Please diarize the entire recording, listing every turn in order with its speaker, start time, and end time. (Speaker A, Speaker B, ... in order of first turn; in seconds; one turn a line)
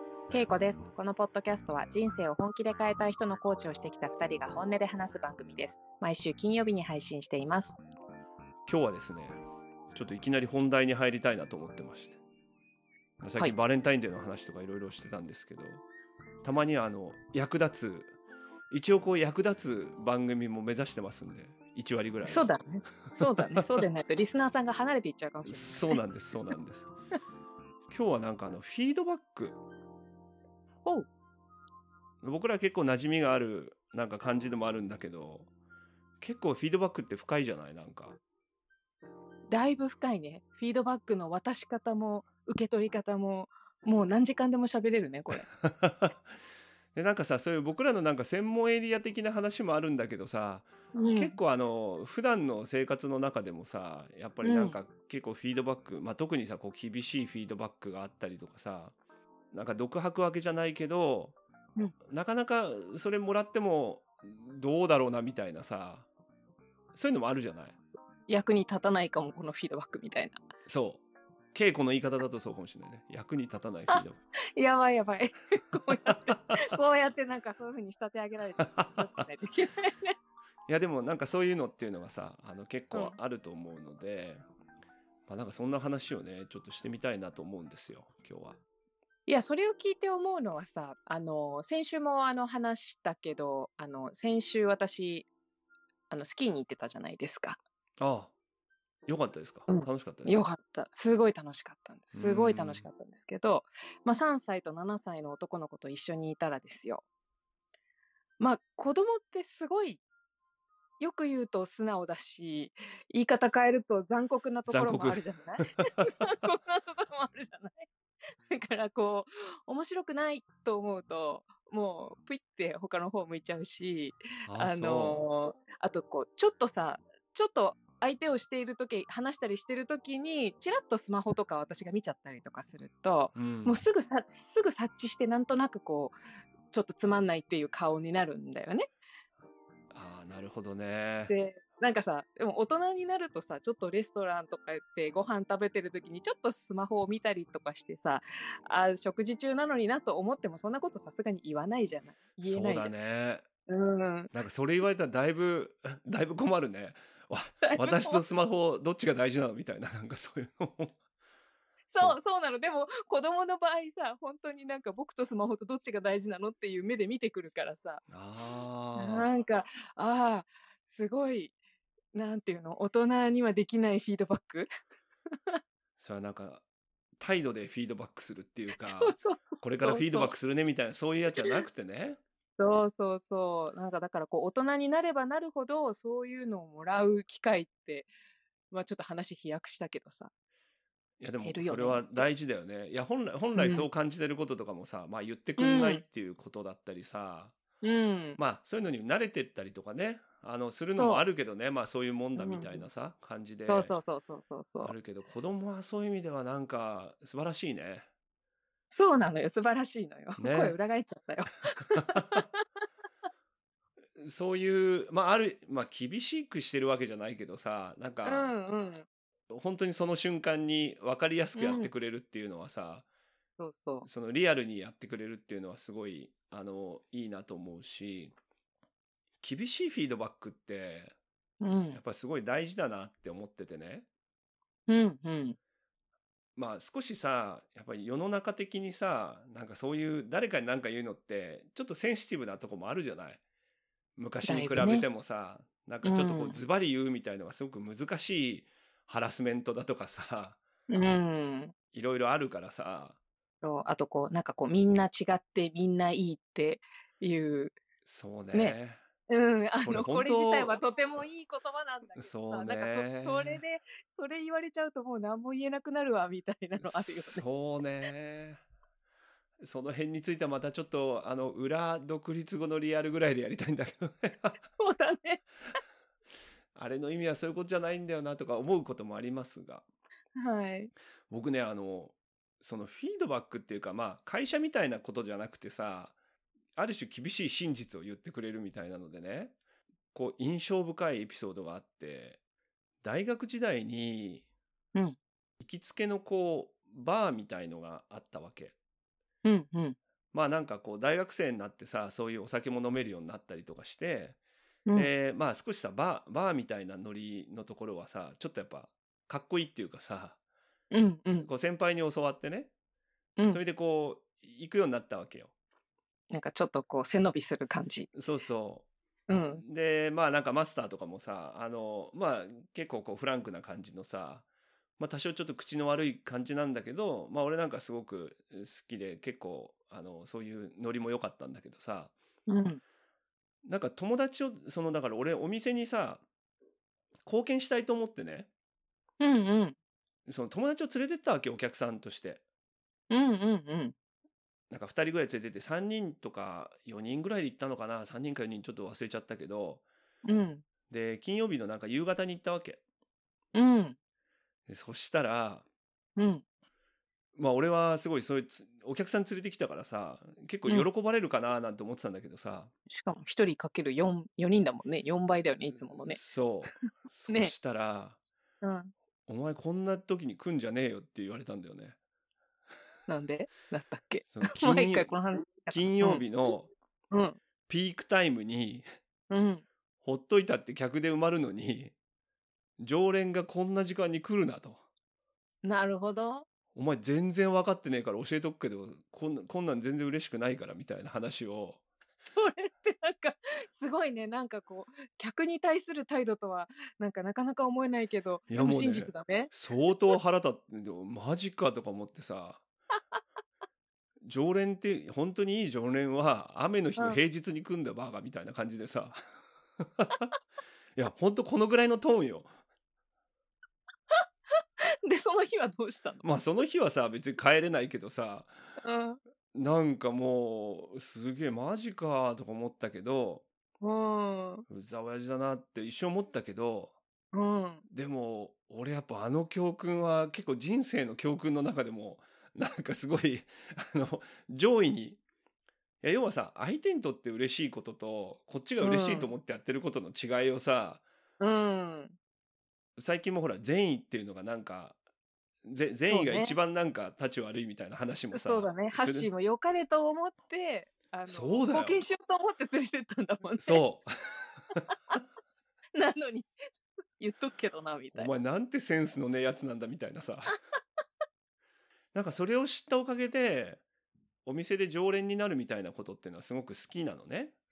Speaker A: 0.3-7.8
Speaker B: 8.7-9.4
Speaker B: 9.9-12.2
Speaker B: 13.2-15.8
Speaker B: 16.4-18.1
Speaker B: 18.7-22.5
Speaker A: 22.3-26.0
Speaker B: 23.1-23.8
Speaker B: 25.5-26.9
Speaker B: 27.9-29.6
Speaker B: 32.2-35.5
Speaker B: 36.2-38.2
Speaker A: 39.5-45.5
Speaker B: 45.6-46.2
Speaker B: 46.9-59.0
Speaker A: 51.0-51.4
Speaker A: 54.4-54.8
Speaker B: 59.5-61.4
Speaker B: 62.1-66.1
Speaker B: 66.9-67.8
Speaker A: 68.3-70.4
Speaker B: 70.7-71.0
Speaker B: 71.5-74.2
Speaker A: 74.6-80.2
Speaker B: 75.9-76.6
Speaker B: 78.6-79.1
Speaker B: 80.7-84.5
Speaker B: 85.3-88.6
Speaker A: 89.3-95.3
Speaker A: 96.1-97.6
Speaker B: 98.0-98.3
Speaker B: 99.1-100.5
Speaker A: 99.7-107.0
Speaker B: 102.1-102.9
Speaker A: 108.4-110.0
Speaker A: 111.0-117.9
Speaker B: 114.7-116.1
Speaker A: 118.5-136.2
Speaker B: 124.5-125.2
Speaker B: 133.3-133.8
Speaker A: 136.7-138.9
Speaker B: 139.9-141.3
Speaker A: 141.3-152.9
Speaker B: 152.4-153.4
Speaker A: 153.7-154.3
Speaker B: 154.3-160.9
Speaker A: 157.6-158.5
Speaker A: 161.9-168.0
Speaker B: 168.1-169.3
Speaker A: 169.0-171.6
Speaker A: 172.1-174.7
Speaker B: 176.0-176.6
Speaker B: 177.2-182.2
Speaker A: 178.8-180.3
Speaker A: 182.6-188.1
Speaker A: 188.7-190.3
Speaker B: 191.2-197.6
Speaker A: 191.4-192.3
Speaker A: 193.6-193.9
Speaker A: 195.6-196.0
Speaker A: 197.8-198.4
Speaker B: 198.4-203.9
Speaker A: 201.0-201.2
Speaker A: 202.4-202.8
Speaker A: 203.7-204.9
Speaker B: 204.8-208.1
Speaker A: 208.9-212.6
Speaker B: 210.4-210.8
Speaker B: 212.0-212.4
Speaker B: 214.2-218.5
Speaker A: 218.2-219.1
Speaker B: 219.5-223.1
Speaker A: 221.6-221.9
Speaker A: 223.6-224.1
Speaker B: 224.1-228.3
Speaker B: 229.4-231.1
Speaker A: 231.6-232.0
Speaker B: 231.9-234.1
Speaker A: 234.9-235.6
Speaker B: 236.6-243.4
Speaker B: 244.2-250.6
Speaker A: 244.4-245.1
Speaker A: 246.0-246.6
Speaker A: 250.9-251.7
Speaker B: 251.9-253.2
Speaker A: 253.6-257.8
Speaker B: 258.1-259.0
Speaker A: 259.3-267.5
Speaker B: 259.7-260.8
Speaker B: 262.2-263.6
Speaker B: 266.8-268.6
Speaker B: 269.6-274.6
Speaker A: 274.8-275.4
Speaker B: 276.8-279.8
Speaker A: 280.4-280.9
Speaker B: 281.3-286.1
Speaker B: 286.8-289.6
Speaker B: 290.1-292.4
Speaker B: 293.0-294.4
Speaker B: 295.6-298.7
Speaker A: 299.4-300.0
Speaker B: 300.3-304.4
Speaker B: 304.9-310.4
Speaker A: 310.9-311.5
Speaker B: 311.4-312.7
Speaker B: 313.5-315.5
Speaker A: 316.3-318.1
Speaker B: 318.1-318.9
Speaker A: 319.3-319.6
Speaker B: 319.5-324.4
Speaker B: 325.0-332.1
Speaker A: 332.5-332.8
Speaker B: 333.6-336.2
Speaker B: 337.2-338.5
Speaker A: 339.2-339.8
Speaker B: 340.3-342.4
Speaker A: 343.1-343.9
Speaker B: 344.7-349.8
Speaker A: 350.3-350.6
Speaker B: 350.9-352.8
Speaker A: 353.6-354.0
Speaker B: 354.7-355.6
Speaker A: 356.2-356.4
Speaker B: 357.4-362.7
Speaker A: 362.9-366.2
Speaker B: 366.0-368.2
Speaker A: 368.6-368.9
Speaker B: 369.3-372.0
Speaker A: 373.1-376.3
Speaker B: 374.3-375.1
Speaker B: 375.7-376.7
Speaker A: 377.1-377.4
Speaker B: 377.7-378.9
Speaker A: 379.3-379.6
Speaker B: 380.0-381.9
Speaker B: 382.8-384.8
Speaker A: 385.6-386.5
Speaker B: 386.8-391.8
Speaker A: 392.3-399.5
Speaker B: 398.5-402.6
Speaker B: 404.2-409.2
Speaker B: 409.8-410.3
Speaker B: 411.0-412.5
Speaker A: 415.1-416.3
Speaker B: 416.2-418.5
Speaker A: 418.8-419.2
Speaker B: 419.5-423.4
Speaker A: 423.8-424.7
Speaker B: 424.7-426.9
Speaker A: 427.3-427.9
Speaker B: 427.9-435.2
Speaker B: 436.0-441.0
Speaker A: 438.8-439.3
Speaker A: 441.4-442.2
Speaker B: 443.0-445.0
Speaker B: 445.6-449.3
Speaker A: 446.1-446.6
Speaker A: 448.3-453.8
Speaker B: 451.3-452.0
Speaker B: 453.6-454.1
Speaker A: 456.0-456.5
Speaker A: 457.2-458.3
Speaker B: 458.1-460.6
Speaker B: 462.1-463.8
Speaker B: 464.4-467.5